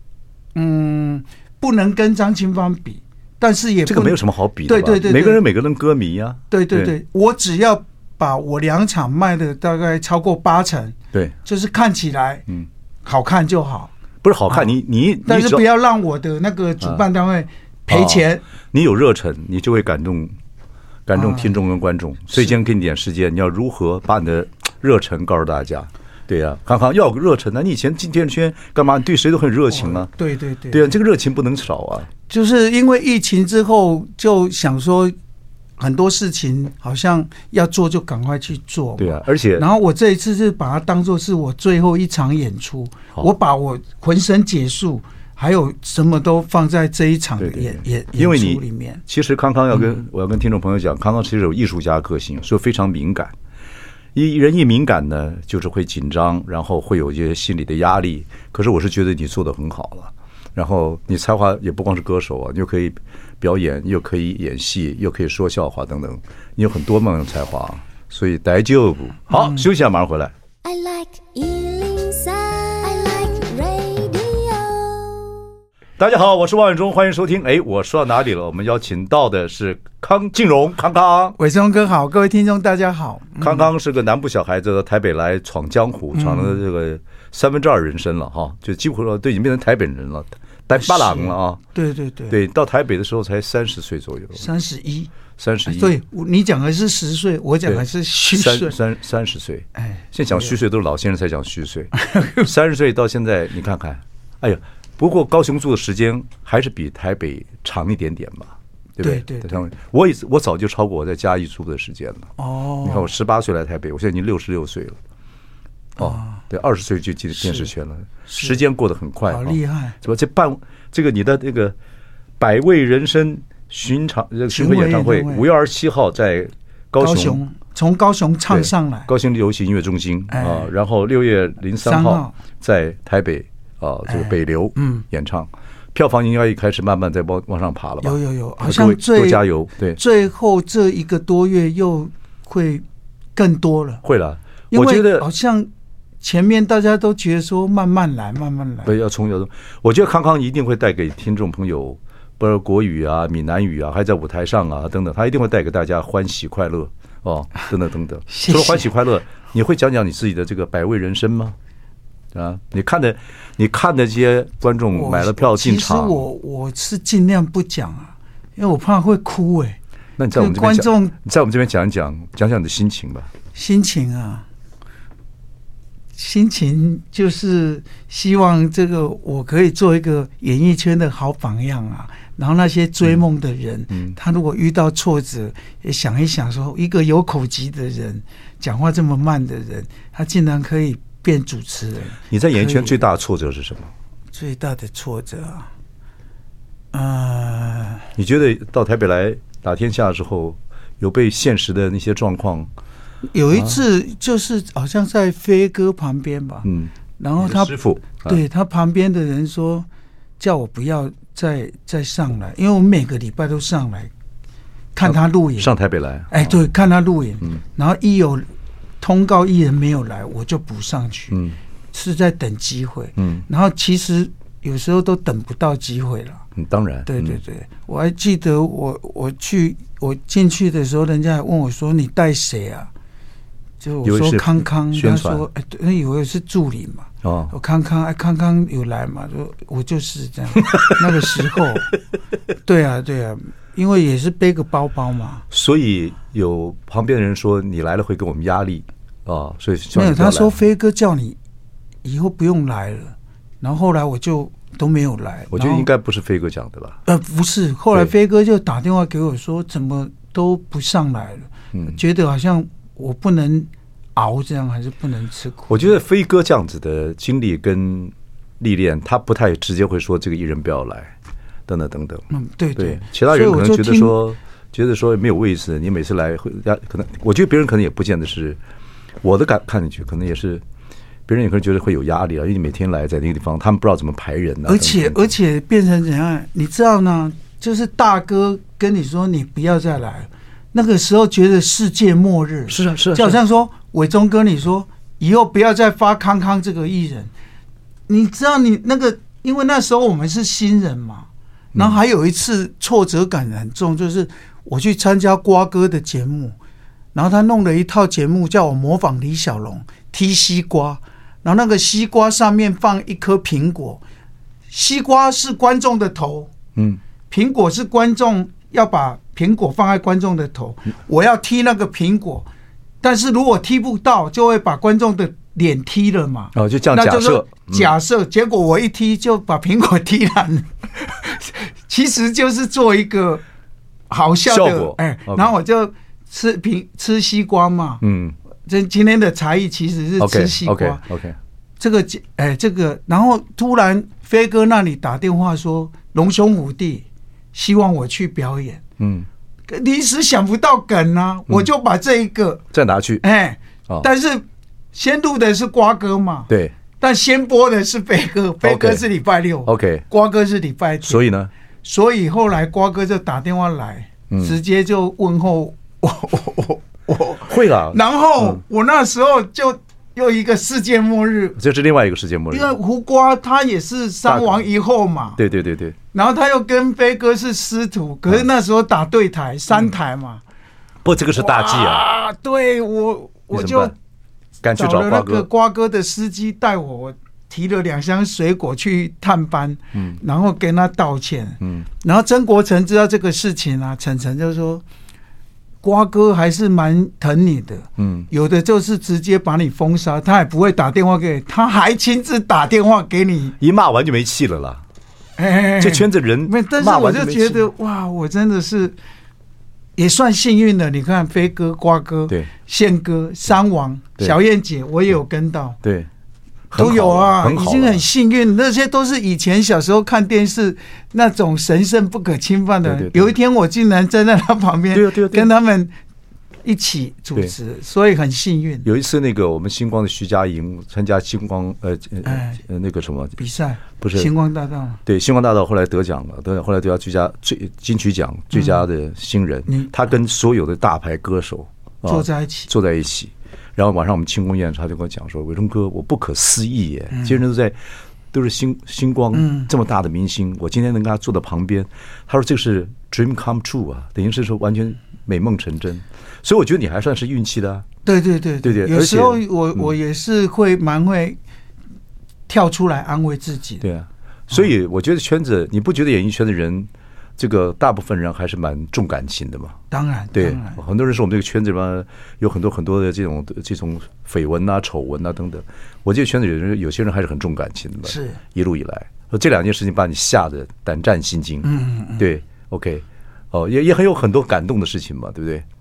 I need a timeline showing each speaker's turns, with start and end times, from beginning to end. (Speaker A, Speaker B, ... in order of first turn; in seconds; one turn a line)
Speaker A: 0.5-5.4
Speaker B: 3.9-6.9
Speaker A: 6.5-12.4
Speaker A: 13.0-13.9
Speaker B: 14.2-15.6
Speaker A: 15.2-18.4
Speaker B: 17.9-20.3
Speaker B: 21.1-30.1
Speaker A: 21.1-21.6
Speaker A: 29.7-31.0
Speaker B: 30.7-32.1
Speaker A: 32.3-35.1
Speaker A: 35.8-49.0
Speaker B: 39.0-39.6
Speaker B: 47.4-53.3
Speaker B: 54.1-70.3
Speaker A: 69.3-69.7
Speaker C: 70.6-75.4
Speaker B: 76.0-81.3
Speaker A: 81.4-83.7
Speaker B: 83.4-91.6
Speaker A: 86.1-86.6
Speaker A: 90.8-92.4
Speaker B: 92.3-94.5
Speaker A: 94.3-95.1
Speaker B: 95.4-95.9
Speaker A: 95.7-98.7
Speaker B: 97.6-101.9
Speaker A: 99.8-100.5
Speaker A: 101.9-102.5
Speaker B: 102.4-112.3
Speaker A: 109.0-109.6
Speaker A: 112.4-113.1
Speaker B: 112.8-115.0
Speaker A: 116.0-116.4
Speaker B: 116.0-121.8
Speaker A: 118.3-118.6
Speaker A: 119.3-120.0
Speaker B: 122.4-127.4
Speaker A: 124.5-125.5
Speaker A: 127.0-129.1
Speaker B: 128.5-140.0
Speaker A: 130.3-130.7
Speaker A: 131.8-132.3
Speaker A: 134.1-135.0
Speaker A: 138.0-139.4
Speaker A: 139.9-142.8
Speaker A: 143.3-144.0
Speaker B: 144.0-145.3
Speaker A: 144.7-145.7
Speaker A: 146.2-148.9
Speaker B: 148.8-161.6
Speaker A: 158.3-158.9
Speaker B: 162.3-166.2
Speaker A: 164.9-169.8
Speaker B: 170.2-173.3
Speaker A: 170.3-171.1
Speaker A: 173.5-174.4
Speaker A: 176.2-193.0
Speaker B: 192.3-193.9
Speaker A: 194.3-195.7
Speaker A: 196.9-198.1
Speaker B: 198.2-202.7
Speaker A: 203.3-206.7
Speaker B: 203.5-203.8
Speaker B: 206.6-208.4
Speaker A: 207.2-209.9
Speaker A: 210.4-214.1
Speaker A: 214.9-215.7
Speaker B: 215.0-216.5
Speaker A: 216.3-218.4
Speaker A: 219.0-221.4
Speaker B: 221.3-221.6
Speaker A: 221.9-226.4
Speaker B: 223.2-223.4
Speaker B: 226.6-227.4
Speaker A: 227.1-232.9
Speaker A: 233.8-241.9
Speaker B: 234.0-235.5
Speaker B: 237.2-237.5
Speaker B: 240.6-241.4
Speaker A: 242.6-245.4
Speaker B: 245.5-250.6
Speaker A: 249.9-251.4
Speaker A: 252.0-255.9
Speaker B: 255.5-257.0
Speaker A: 257.1-265.9
Speaker B: 265.7-271.1
Speaker B: 271.7-278.6
Speaker A: 272.3-274.1
Speaker B: 279.2-280.6
Speaker B: 281.3-285.3
Speaker A: 284.6-297.3
Speaker B: 292.7-293.4
Speaker A: 298.1-306.6
Speaker B: 301.7-302.0
Speaker A: 307.1-314.0
Speaker A: 314.7-316.5
Speaker B: 316.7-317.0
Speaker A: 317.3-322.5
Speaker A: 323.0-333.4
Speaker B: 326.5-327.9
Speaker A: 334.1-338.0
Speaker B: 334.5-335.5
Speaker B: 338.0-338.3
Speaker A: 338.6-341.0
Speaker B: 340.2-341.4
Speaker A: 341.8-348.8
Speaker B: 349.0-349.3
Speaker A: 349.7-352.6
Speaker B: 352.7-353.2
Speaker A: 353.2-361.3
Speaker B: 356.5-356.7
Speaker B: 358.6-359.0
Speaker B: 359.6-360.0
Speaker B: 361.0-361.5
Speaker A: 361.8-371.6
Speaker B: 364.3-364.6
Speaker B: 367.5-368.6
Speaker B: 371.6-372.7
Speaker A: 372.5-375.4
Speaker B: 374.2-374.6
Speaker B: 375.4-375.9
Speaker A: 376.1-380.4
Speaker B: 381.0-382.0
Speaker A: 381.4-383.9
Speaker B: 383.5-383.9
Speaker B: 384.6-385.5
Speaker A: 384.8-394.8
Speaker B: 391.6-391.9
Speaker A: 395.8-403.6
Speaker B: 398.0-398.3
Speaker B: 403.6-404.8
Speaker A: 405.4-408.9
Speaker B: 405.8-407.7
Speaker A: 409.9-415.8
Speaker B: 415.8-416.1
Speaker B: 416.7-418.0
Speaker A: 416.7-425.9
Speaker B: 422.8-423.3
Speaker B: 424.9-425.5
Speaker A: 426.6-428.9
Speaker B: 428.8-433.4
Speaker A: 432.2-432.6
Speaker A: 433.4-435.0
Speaker B: 434.0-434.3
Speaker B: 435.1-447.8
Speaker A: 438.5-438.8
Speaker A: 439.7-439.9
Speaker A: 442.0-442.7
Speaker B: 448.3-457.9
Speaker A: 449.3-449.7
Speaker A: 458.0-461.4
Speaker B: 458.6-459.9
Speaker A: 462.5-463.8
Speaker B: 463.8-469.8
Speaker A: 469.9-470.8
Speaker B: 470.3-485.6
Speaker A: 478.1-478.4
Speaker A: 481.6-482.2